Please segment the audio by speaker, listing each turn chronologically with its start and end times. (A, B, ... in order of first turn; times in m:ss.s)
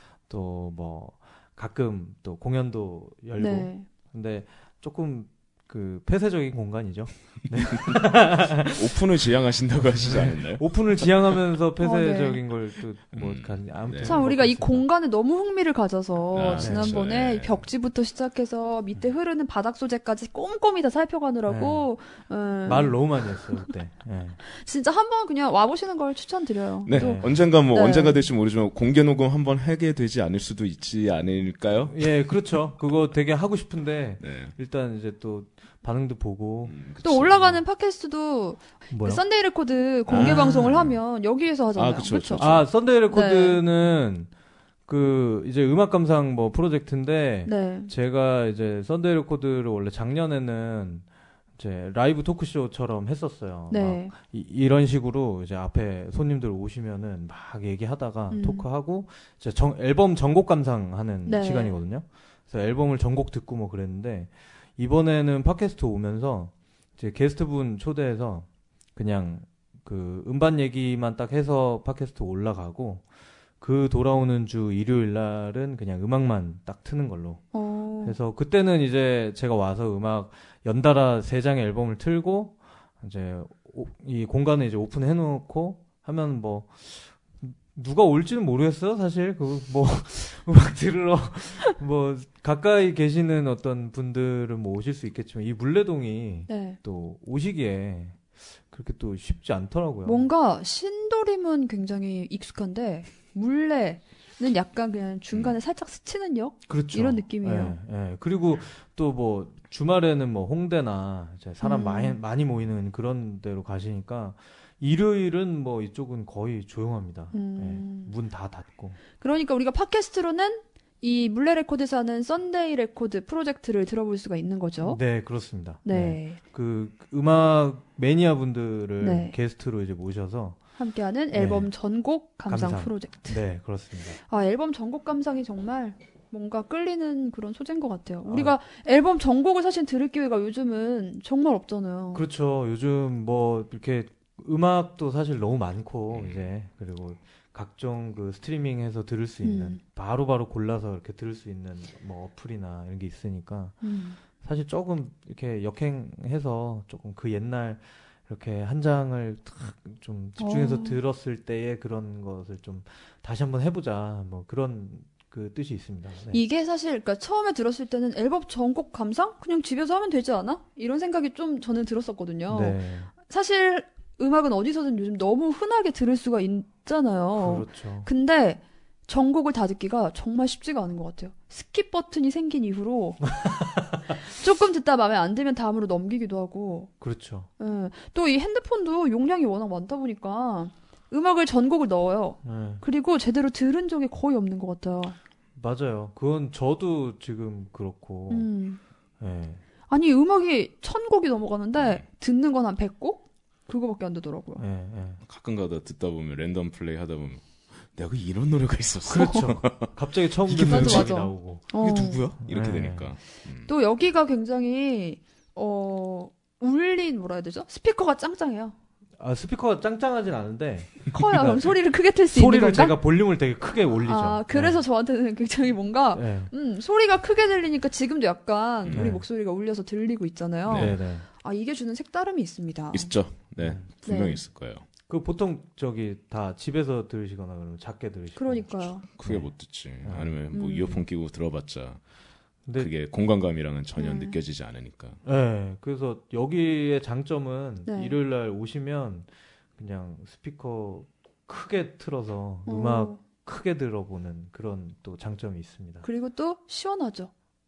0:00.2-0:08.8 A
0:03.4-0:03.9 B
0:08.6-0:11.3 C
0:10.0-0:14.9 A
0:11.8-0:12.4 B
0:13.1-0:14.2 C
0:14.0-0:23.7 B
0:16.3-0:17.7 C
0:16.5-0:17.0 A
0:21.5-0:21.9 A
0:22.6-0:24.4 A
0:24.5-0:28.2 B
0:26.8-0:32.0 C
0:26.9-0:27.4 A
0:31.9-0:36.8 A
0:34.2-0:34.5 C
0:36.6-0:37.6 C
0:37.0-0:42.5 B
0:38.9-0:39.2 A
0:40.1-0:40.5 A
0:40.1-0:41.0 C
0:41.7-0:42.7 C
0:42.4-0:44.3 A
0:43.1-0:43.6 B
0:44.9-0:51.0 A
0:47.4-0:47.9 B
0:51.6-1:13.0 A
0:53.7-0:54.1 B
0:58.3-0:58.6 B
1:01.2-1:01.8 B
1:13.6-1:17.4 A
1:17.5-1:18.2 B
1:18.0-1:40.3 A
1:36.5-1:36.8 B
1:40.0-1:47.8 B
1:45.3-1:45.6 C
1:46.7-1:59.0 A
1:51.6-1:52.2 B
1:57.3-1:58.1 B
1:59.2-2:05.0 B
2:04.8-2:10.6 A
2:05.8-2:06.4 B
2:09.0-2:09.3 B
2:10.8-2:13.5 B
2:11.3-2:11.7 A
2:12.4-2:14.2 A
2:14.3-2:22.2 B
2:18.2-2:18.6 A
2:22.1-2:33.8 A
2:26.1-2:26.5 C
2:29.4-2:29.8 B
2:33.8-2:34.2 B
2:34.4-2:46.4 A
2:40.4-2:41.0 B
2:46.3-3:03.2 B
2:52.5-2:53.1 A
2:57.4-2:58.1 A
3:04.2-3:06.9 B
3:07.0-3:07.5 A
3:07.6-3:15.1 B
3:12.4-3:12.8 A
3:15.6-3:18.5 A
3:18.3-3:18.8 B
3:19.2-3:19.6 A
3:19.9-3:24.6 B
3:21.8-3:22.0 C
3:24.6-3:25.2 A
3:25.2-3:33.7 C
3:29.0-3:31.6 A
3:29.2-3:29.5 B
3:30.6-3:32.3 B
3:32.4-3:33.1 A
3:33.6-3:38.7 B
3:39.2-3:41.7 A
3:41.1-3:43.0 B
3:42.3-3:44.8 A
3:44.0-3:53.1 B
3:46.1-3:46.5 A
3:48.8-3:49.2 C
3:48.9-3:49.2 A
3:50.7-3:51.2 A
3:50.7-3:51.0 C
3:52.9-3:54.9 C
3:53.6-3:53.9 A
3:54.0-3:54.4 B
3:55.1-3:59.5 A
3:58.4-3:59.0 B
3:59.2-4:02.0 C
4:00.0-4:00.4 A
4:00.5-4:01.0 B
4:02.6-4:02.9 A
4:02.7-4:05.2 C
4:04.0-4:04.4 B
4:05.2-4:16.0 A
4:07.8-4:08.2 B
4:12.6-4:13.2 B
4:16.0-4:17.3 B